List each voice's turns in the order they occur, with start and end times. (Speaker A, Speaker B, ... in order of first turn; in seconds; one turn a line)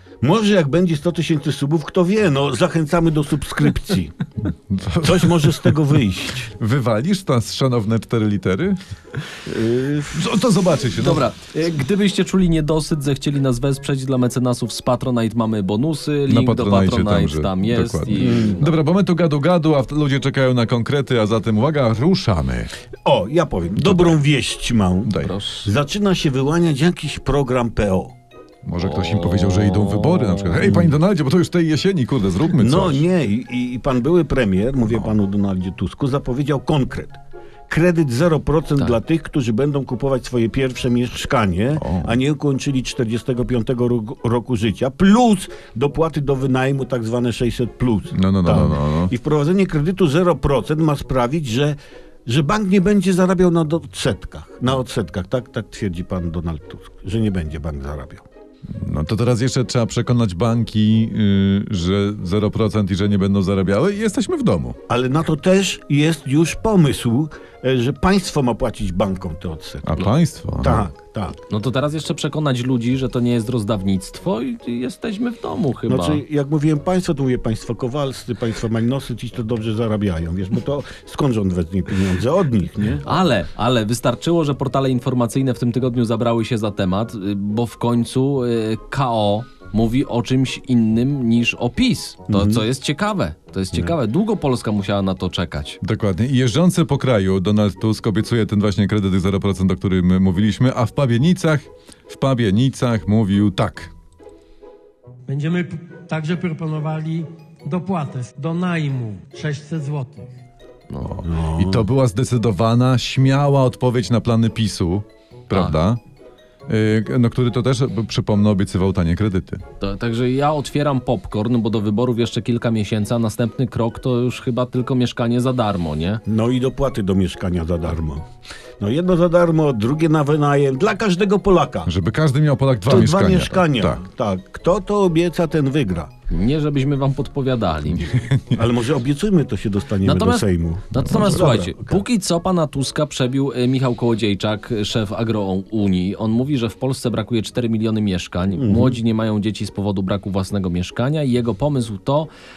Speaker A: 0.2-4.1
Speaker B: 4.5-8.8
Speaker A: 5.0-6.5
Speaker A: 9.4-10.3
Speaker B: 10.1-11.3
Speaker C: 10.9-18.8
Speaker B: 16.3-22.7
Speaker A: 18.1-18.6
Speaker A: 23.0-28.1
Speaker B: 23.7-24.2
Speaker B: 25.0-25.3
Speaker C: 25.1-25.7
Speaker B: 28.6-33.0
Speaker C: 28.8-30.7
Speaker A: 30.6-31.0
Speaker A: 32.6-37.2
Speaker B: 34.9-35.1
Speaker A: 37.7-58.2
Speaker B: 41.8-42.2
Speaker B: 48.1-49.1
Speaker B: 58.7-64.8
Speaker A: 64.9-70.0
Speaker B: 69.8-70.9
Speaker A: 70.6-71.4
Speaker C: 71.5-76.2
Speaker A: 75.9-83.0
Speaker C: 82.9-95.8
Speaker A: 92.3-92.7
Speaker B: 95.8-103.9
Speaker D: 105.3-110.3
Speaker C: 110.9-111.2
Speaker B: 111.0-116.0
Speaker A: 111.2-111.9
Speaker C: 115.5-115.8
Speaker B: 116.7-119.6
Speaker C: 119.8-126.2
Speaker A: 126.3-128.2
Speaker A: 128.8-131.9
Speaker B: 131.8-134.0
Speaker A: 132.8-136.1
Speaker C: 136.3-138.2
Speaker B: 137.9-138.6
Speaker A: 138.5-142.0
Speaker C: 140.0-152.3
Speaker B: 140.9-141.5
Speaker A: 148.5-149.0